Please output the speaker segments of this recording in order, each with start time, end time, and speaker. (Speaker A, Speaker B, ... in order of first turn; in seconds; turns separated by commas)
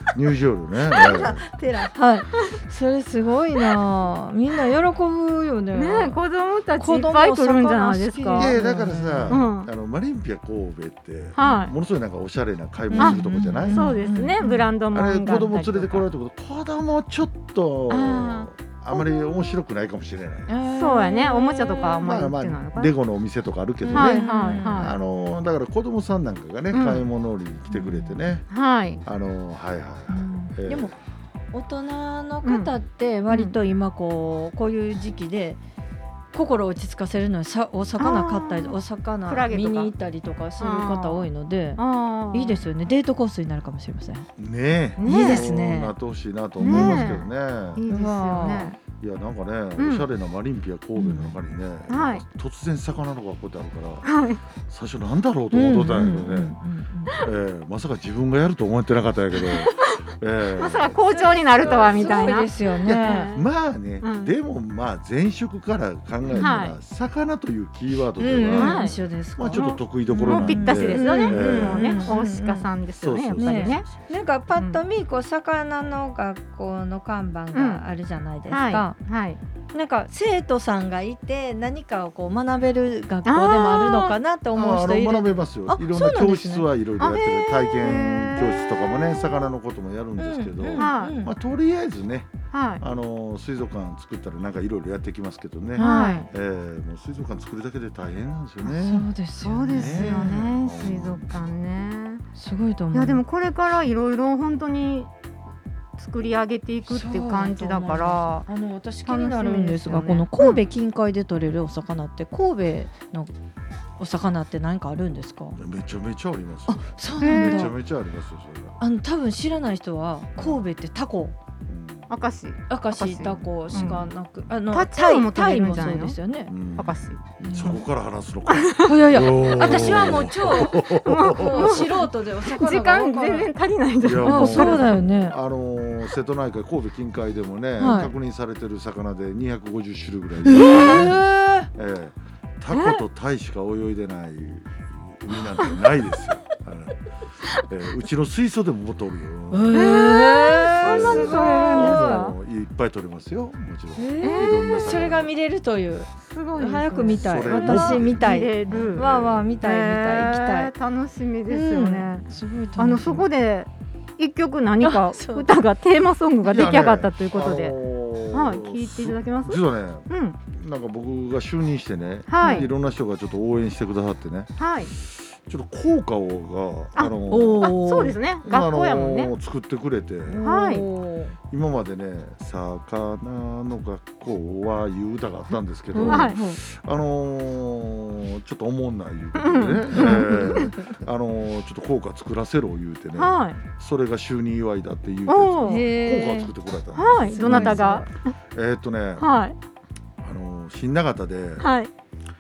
Speaker A: 0.1-1.4, Speaker B: 0.9-6.2, Speaker C: 5.7-8.6, Speaker B: 6.8-9.4, Speaker A: 8.3-13.9, Speaker C: 9.3-9.7, Speaker C: 11.4-11.7, Speaker B: 12.9-14.7, Speaker C: 13.0-16.1, Speaker A: 14.9-20.5, Speaker C: 17.9-19.5, Speaker B: 20.5-22.1, Speaker C: 20.7-22.9, Speaker A: 22.0-28.5, Speaker B: 23.8-24.9, Speaker C: 23.9-24.9, Speaker C: 26.7-27.1, Speaker B: 27.7-28.2, Speaker C: 28.5-29.0, Speaker A: 29.0-30.9, Speaker B: 30.1-30.9, Speaker B: 31.5-35.6, Speaker C: 32.4-32.7, Speaker C: 33.3-33.5, Speaker B: 36.3-44.3, Speaker C: 38.0-39.9, Speaker C: 40.6-42.6, Speaker A: 44.4-47.8, Speaker C: 45.0-45.5, Speaker B: 45.0-45.9, Speaker B: 46.6-47.2, Speaker C: 46.6-48.8, Speaker B: 47.9-48.7, Speaker A: 49.0-54.1, Speaker C: 49.8-50.0, Speaker B: 51.0-51.4, Speaker C: 51.9-52.2, Speaker C: 54.0-54.4, Speaker A: 54.6-56.5, Speaker B: 55.5-57.2, Speaker A: 57.2-61.0, Speaker C: 59.6-59.9, Speaker C: 60.6-63.5, Speaker B: 61.1-63.3, Speaker A: 61.6-72.1, Speaker C: 64.0-64.3, Speaker B: 66.3-66.5, Speaker C: 66.3-66.8, Speaker B: 68.2-72.7, Speaker C: 68.5-69.0, Speaker C: 69.5-73.9, Speaker A: 73.0-74.1, Speaker B: 73.3-79.0, Speaker C: 74.5-74.8, Speaker C: 77.5-77.8, Speaker C: 78.5-79.4, Speaker B: 79.7-86.7, Speaker C: 83.2-84.2, Speaker A: 84.5-99.1, Speaker C: 87.0-89.3, Speaker B: 90.2-91.3, Speaker C: 90.7-91.2, Speaker C: 92.5-92.8, Speaker B: 95.8-96.3, Speaker C: 95.8-96.2, Speaker B: 98.6-100.3, Speaker C: 99.4-102.2, Speaker A: 99.6-101.5, Speaker B: 102.3-103.2, Speaker C: 102.9-105.1, Speaker C: 106.0-108.5, Speaker B: 106.8-113.3, Speaker C: 109.0-110.6, Speaker B: 114.0-115.6, Speaker A: 115.6-118.8, Speaker B: 116.7-117.8, Speaker C: 117.2-117.7, Speaker B: 118.8-121.3, Speaker A: 121.7-122.1, Speaker C: 122.1-124.1, Speaker B: 122.7-126.5, Speaker C: 124.7-126.2, Speaker A: 126.5-131.9, Speaker C: 126.7-127.7, Speaker B: 127.4-127.8, Speaker C: 128.5-128.9, Speaker B: 128.8-133.5, Speaker C: 129.6-134.9, Speaker A: 134.0-147.0, Speaker B: 134.2-135.3, Speaker B: 137.8-138.1, Speaker B: 140.4-141.7, Speaker C: 140.6-141.1, Speaker C: 142.7-143.0, Speaker A: 147.5-150.0, Speaker B: 149.5-152.2, Speaker C: 149.7-152.3, Speaker A: 150.8-155.3, Speaker B: 153.9-160.7, Speaker C: 154.2-154.9, Speaker C: 156.2-167.8, Speaker A: 157.1-159.5, Speaker B: 161.5-163.3, Speaker B: 164.8-165.6, Speaker A: 166.4-177.8, Speaker C: 168.3-170.4, Speaker C: 172.3-172.7, Speaker B: 172.4-172.7, Speaker C: 174.6-174.9, Speaker C: 176.9-179.3, Speaker B: 177.3-178.2, Speaker A: 178.4-180.4, Speaker B: 180.2-181.3, Speaker C: 180.4-180.9, Speaker A: 181.5-198.0, Speaker B: 185.9-186.6, Speaker C: 186.0-186.4, Speaker C: 189.4-190.7, Speaker B: 189.9-190.9, Speaker C: 193.2-193.6, Speaker C: 195.3-195.8, Speaker B: 195.6-196.5, Speaker C: 196.9-198.3, Speaker B: 197.3-198.1, Speaker A: 198.5-199.3, Speaker C: 199.2-199.6, Speaker A: 200.2-201.7, Speaker C: 201.6-201.9